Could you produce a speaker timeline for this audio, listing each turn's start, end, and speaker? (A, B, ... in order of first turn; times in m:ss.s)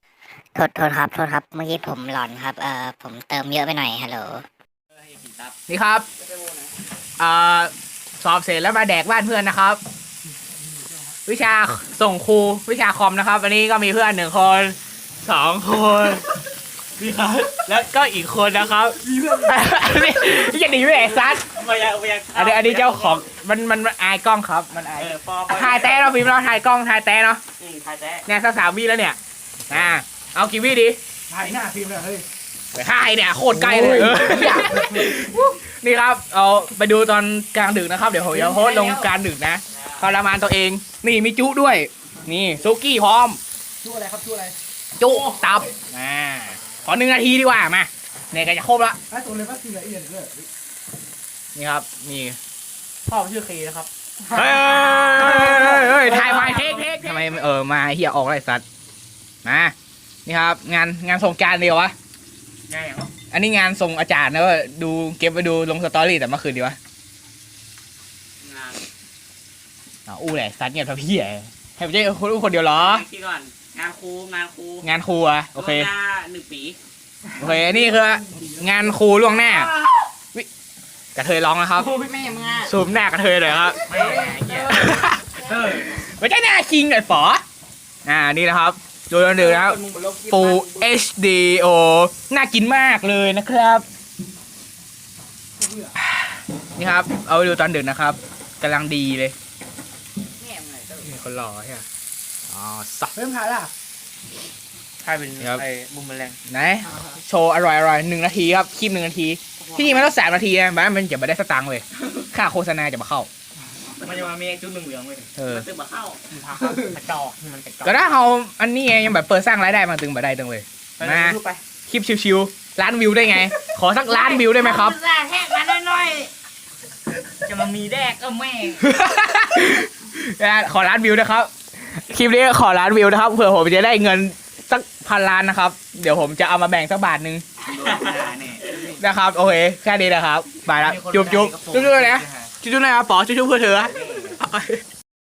0:00.6-0:04.5 A
0:05.1-0:05.5 B
0:05.7-0:06.0 C
0:06.2-0:06.6 B
0:07.2-0:09.8 C
0:11.3-0:16.3 C
0:17.0-0:17.5 B
0:17.5-0:21.5 C
0:21.4-0:23.2 B
0:22.3-0:27.4 C
0:25.0-0:26.2 B
0:27.6-0:28.2 B
0:28.3-0:29.2 C
0:29.7-0:31.0 C
0:31.3-0:32.3 D
0:32.7-0:43.4 C
0:38.5-0:38.9 B
0:43.8-0:44.6 D
0:45.0-0:49.0 C
0:49.1-0:50.5 D
0:51.5-0:52.4 C
0:53.1-0:53.9 B
0:54.2-0:58.6 C
0:54.4-0:57.4 B
0:59.4-0:59.7 C
1:00.3-1:01.9 C
1:02.7-1:03.1 B
1:03.3-1:06.8 C
1:08.4-1:08.8 B
1:10.1-1:13.0 C
1:12.7-1:14.8 B
1:14.8-1:15.9 C
1:15.5-1:16.8 B
1:17.4-1:19.7 C
1:21.2-1:21.9 C
1:21.8-1:22.7 B
1:22.6-1:27.4 C
1:23.9-1:25.8 B
1:28.0-1:33.8 C
1:29.6-1:30.0 B
1:35.6-1:35.9 D
1:36.8-1:39.3 C
1:40.4-1:41.1 B
1:41.0-1:41.8 C
1:42.5-1:43.2 C
1:43.2-1:43.7 D
1:45.0-1:46.4 B
1:45.4-1:45.6 C
1:46.5-1:53.3 C
1:49.6-1:50.1 B
1:54.0-1:58.0 B
1:55.4-1:55.7 C
1:57.8-2:05.0 C
2:01.0-2:01.6 B
2:04.0-2:06.3 B
2:07.4-2:08.8 B
2:08.8-2:17.4 C
2:17.7-2:19.0 B
2:18.8-2:24.8 C
2:20.8-2:22.5 B
2:23.9-2:24.3 B